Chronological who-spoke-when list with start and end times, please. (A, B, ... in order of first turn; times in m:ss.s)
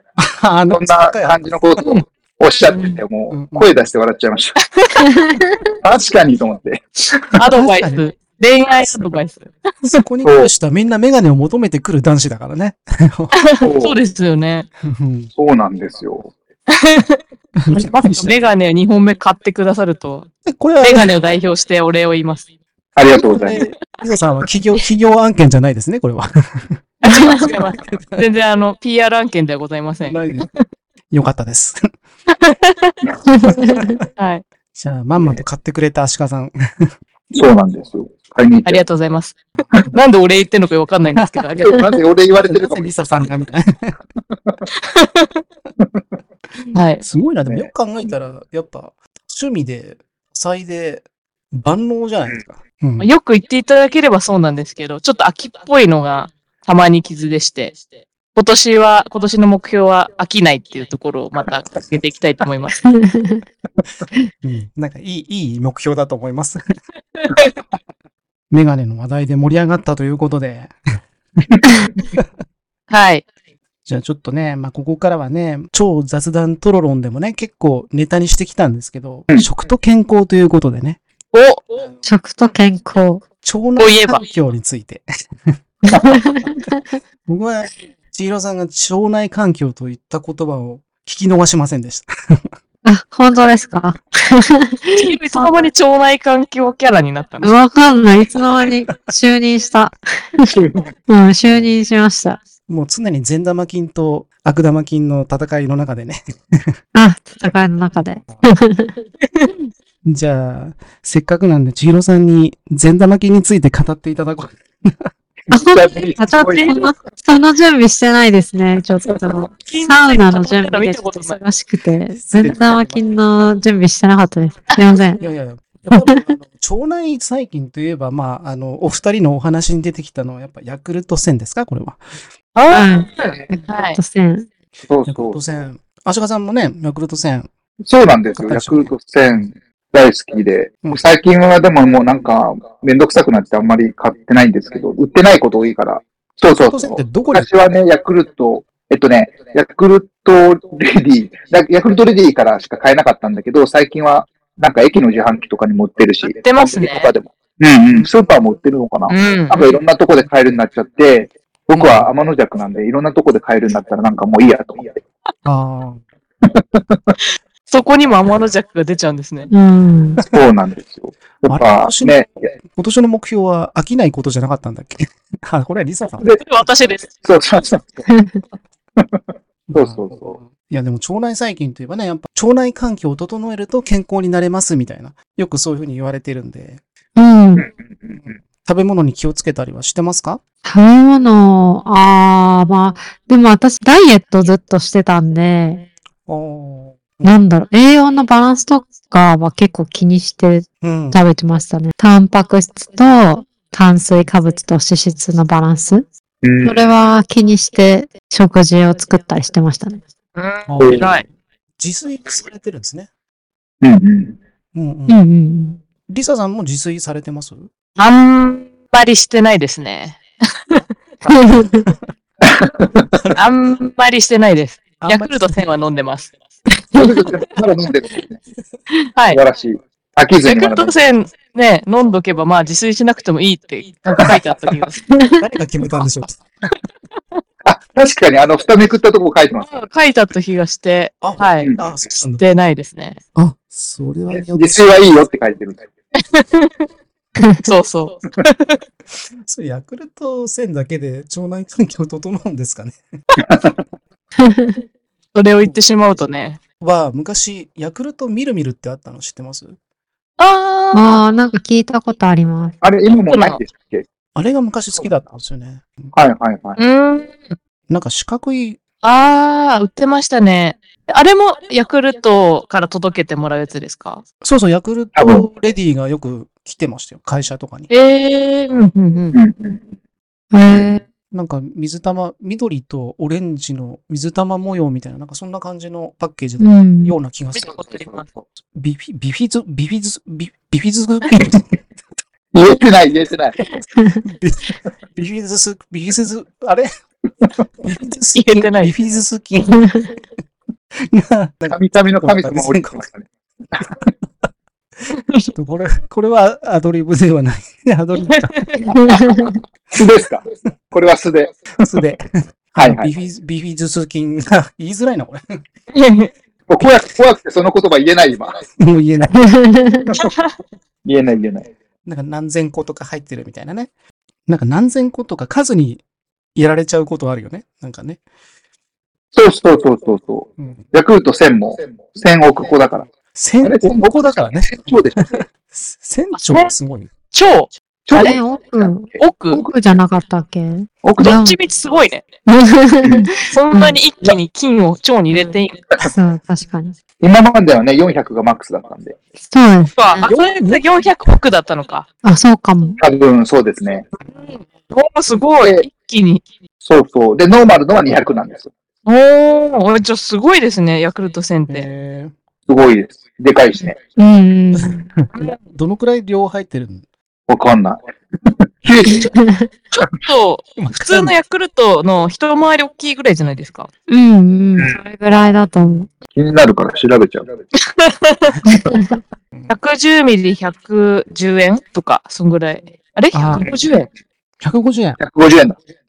0:00.2-0:02.0 A
0:00.7-0:04.5 B
0:02.7-0:03.0 C
0:03.3-0:03.7 A
0:04.8-0:05.1 C
0:05.8-0:07.2 B
0:07.3-0:08.0 A
0:07.4-0:09.6 C
0:09.8-0:13.3 A
0:10.2-0:10.5 B
0:13.4-0:14.7 C
0:13.6-0:13.9 B
0:14.8-0:15.3 A
0:15.4-0:16.3 B
0:16.7-0:20.3 C
0:17.6-0:18.3 A
0:20.4-0:21.1 A
0:20.8-0:22.4 C
0:23.0-0:23.6 B
0:23.2-0:28.2 A
0:27.0-0:30.5 C
0:30.0-0:30.5 A
0:31.1-0:31.9 A
0:32.3-0:33.0 C
0:33.4-0:33.9 D
0:33.6-0:33.9 A
0:34.2-0:34.4 C
0:34.8-0:36.9 A
0:37.3-0:38.8 B
0:38.6-0:39.4 C
0:39.9-0:41.8 C
0:41.2-0:41.4 A
0:41.6-0:43.0 B
0:42.4-0:43.9 A
0:44.8-0:45.4 C
0:46.7-0:47.0 C
0:47.0-0:53.1 A
0:53.0-0:57.8 C
0:58.3-1:02.8 C
1:02.9-1:03.4 D
1:04.4-1:06.6 A
1:07.2-1:07.5 C
1:08.5-1:10.7 A
1:12.9-1:13.2 C
1:13.8-1:21.0 A
1:21.3-1:21.7 C
1:22.0-1:23.2 D
1:23.4-1:25.6 A
1:23.8-1:24.2 C
1:25.9-1:26.6 D
1:27.3-1:32.4 A
1:32.8-1:35.5 D
1:35.0-1:37.5 C
1:37.4-1:40.5 D
1:40.5-1:40.8 B
1:41.1-1:42.4 D
1:41.5-1:41.7 A
1:42.7-1:46.8 A
1:46.9-1:49.0 D
1:50.0-1:55.1 A
1:55.5-1:56.9 B
1:55.5-2:05.2 D
1:56.5-1:56.9 C
1:59.6-2:01.4 C
2:02.2-2:03.0 A
2:05.2-2:12.0 A
2:12.5-2:14.0 C
2:12.7-2:14.5 D
2:14.9-2:15.4 B
2:15.1-2:17.5 A
2:17.8-2:45.0 B
2:18.4-2:19.5 A
2:26.6-2:27.5 A
2:36.2-2:37.1 C
2:39.1-2:39.8 C
2:41.8-2:42.0 A
2:45.4-2:46.0 A
2:46.5-2:47.1 B
2:47.7-2:49.5 C
2:49.5-2:50.2 D
2:50.3-2:52.3 B
2:51.5-2:56.2 A
2:56.2-2:57.1 C
2:57.2-2:58.0 B
2:59.7-3:06.8 A
2:59.7-3:00.4 B
3:07.2-3:07.6 D
3:07.6-3:08.4 B
3:08.2-3:10.4 A
3:10.6-3:15.9 D
3:16.3-3:17.4 A
3:17.2-3:26.0 D
3:20.8-3:21.2 A
3:26.4-3:26.8 B
3:26.6-3:30.0 D
3:30.4-3:31.2 C
3:30.7-3:33.1 A
3:30.8-3:31.1 B
3:33.8-3:34.4 B
3:34.7-3:35.2 A
3:35.1-3:35.8 D
3:36.1-3:37.7 A
3:38.0-3:40.8 C
3:41.3-3:41.8 D
3:42.4-3:43.2 B
3:43.3-3:46.3 C
3:45.0-3:45.5 A
3:47.0-3:48.4 B
3:49.3-3:50.9 B
3:50.4-3:55.0 C
3:55.4-3:56.4 A
3:57.6-3:59.7 B
3:59.6-4:01.7 C
4:01.2-4:02.4 A
4:02.4-4:03.2 C
4:03.3-4:04.9 A
4:04.3-4:05.8 B
4:06.2-4:06.9 C
4:07.6-4:08.8 C
4:09.4-4:13.0 A
4:14.4-4:14.8 D
4:15.3-4:16.6 C
4:16.8-4:19.8 A
4:20.4-4:21.2 C
4:20.9-4:22.7 D
4:22.8-4:24.0 B
4:23.3-4:23.6 C
4:24.3-4:26.1 A
4:26.1-4:26.8 B
4:26.8-4:27.5 C
4:27.9-4:28.8 A
4:29.0-4:34.2 C
4:34.4-4:37.9 A
4:35.1-4:35.5 B
4:37.9-4:39.4 C
4:39.3-4:39.8 B
4:40.5-4:41.0 D
4:41.3-4:47.7 A
4:46.6-4:47.1 D
4:47.5-4:48.3 C
4:48.7-4:51.6 A
4:52.5-4:53.6 B
4:54.2-4:56.9 A
4:57.8-5:00.0 A
4:58.3-4:58.9 C
5:01.0-5:03.0 A
5:01.7-5:03.9 B
5:05.1-5:05.5 C
5:05.5-5:08.6 A
5:08.3-5:08.9 C
5:08.9-5:09.5 D
5:09.9-5:11.9 B
5:11.8-5:15.6 A
5:12.8-5:13.1 B
5:15.9-5:16.3 C
5:16.7-5:18.6 B
5:18.8-5:19.6 A
5:19.3-5:20.1 D
5:20.2-5:20.5 C
5:21.0-5:21.7 B
5:22.0-5:23.9 A
5:24.5-5:26.0 A
5:26.5-5:28.2 A
5:29.3-5:33.1 B
5:33.3-5:37.1 A
5:33.6-5:35.3 B
5:36.3-5:36.7 C
5:37.3-5:38.4 C
5:38.1-5:38.9 B
5:38.1-5:41.6 D
5:39.2-5:39.6 C
5:41.0-5:41.4 B
5:41.2-5:42.3 C
5:42.4-5:44.0 D
5:43.0-5:43.3 B
5:43.5-5:45.8 C
5:46.0-5:47.0 D
5:47.2-5:49.2 B
5:49.5-5:50.3 D
5:50.0-5:52.0 C
5:52.2-5:53.0 D
5:53.0-5:54.0 B
5:54.4-5:56.4 C
5:56.8-5:58.7 B
5:59.0-6:01.9 C
6:01.7-6:02.3 A
6:02.7-6:04.0 B
6:04.2-6:05.1 D
6:04.7-6:07.0 A
6:07.5-6:08.0 B
6:08.8-6:09.3 B
6:09.2-6:09.7 D
6:09.9-6:13.9 C
6:10.8-6:11.3 A
6:14.1-6:16.1 D
6:16.3-6:17.5 B
6:17.9-6:18.5 C
6:19.7-6:24.1 C
6:23.3-6:23.7 A
6:24.6-6:25.2 A
6:25.2-6:25.8 B